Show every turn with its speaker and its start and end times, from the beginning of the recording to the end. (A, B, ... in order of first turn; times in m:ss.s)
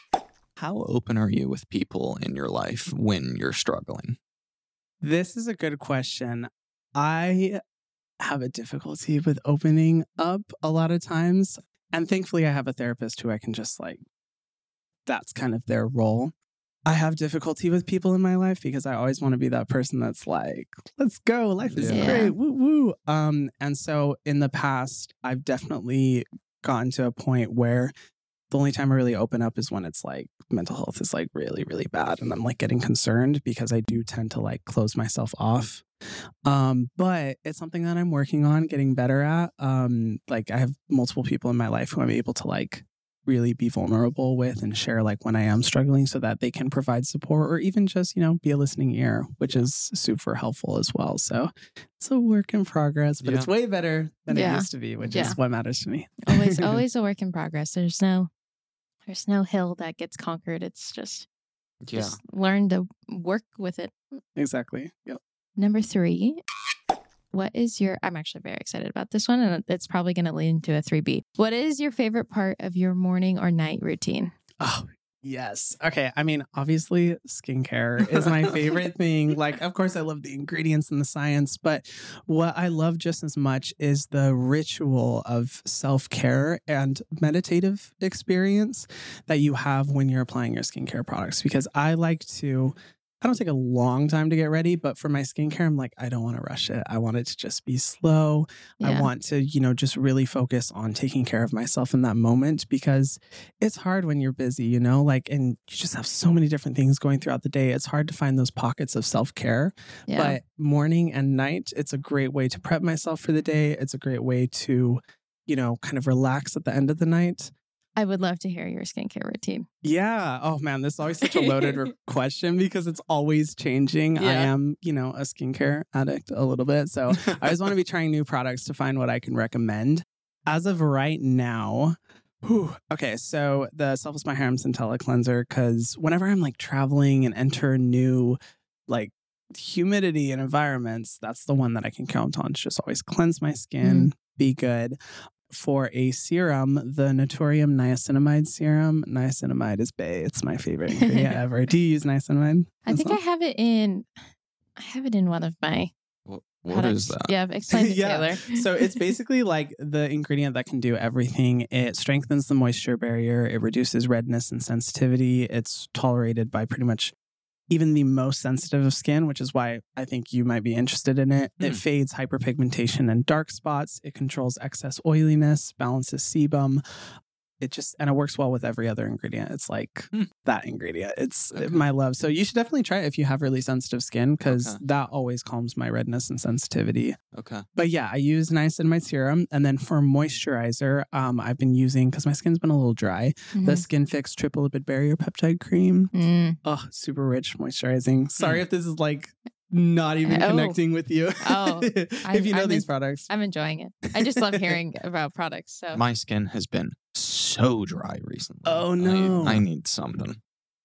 0:00.6-0:04.2 A
0:05.0-0:07.6 B
0:08.2-0:14.0 B
0:15.0-0:16.3 B
0:16.8-0:27.9 B
0:21.7-0:22.2 A
0:21.9-0:22.3 C
0:28.5-0:35.8 B
0:36.4-0:56.8 B
0:53.2-0:53.5 A
0:54.3-0:55.4 C
0:55.0-0:55.3 A
0:56.3-0:58.3 C
0:59.1-1:01.3 C
1:01.8-1:02.2 A
1:01.9-1:04.0 C
1:04.4-1:05.2 B
1:05.6-1:06.4 C
1:07.3-1:14.3 C
1:14.6-1:57.5 B
1:38.8-1:39.1 C
1:50.1-1:50.4 C
1:58.0-1:59.6 C
1:59.8-2:33.2 B
2:01.2-2:01.8 C
2:04.2-2:04.5 C
2:23.8-2:24.1 C
2:31.0-2:31.3 C
2:32.8-2:34.1 C
2:34.8-2:35.9 C
2:36.2-2:37.3 A
2:36.7-2:38.6 C
2:37.7-2:47.1 B
2:47.7-2:56.8 B
2:57.6-3:07.2 B
3:01.5-3:01.8 A
3:04.4-3:04.8 A
3:07.3-3:07.6 A
3:07.7-3:16.1 B
3:13.5-3:13.8 C
3:16.1-3:16.6 C
3:16.6-3:23.3 B
3:20.2-3:20.8 C
3:21.4-3:26.0 C
3:24.2-3:24.8 B
3:25.9-3:30.4 A
3:28.6-3:29.6 B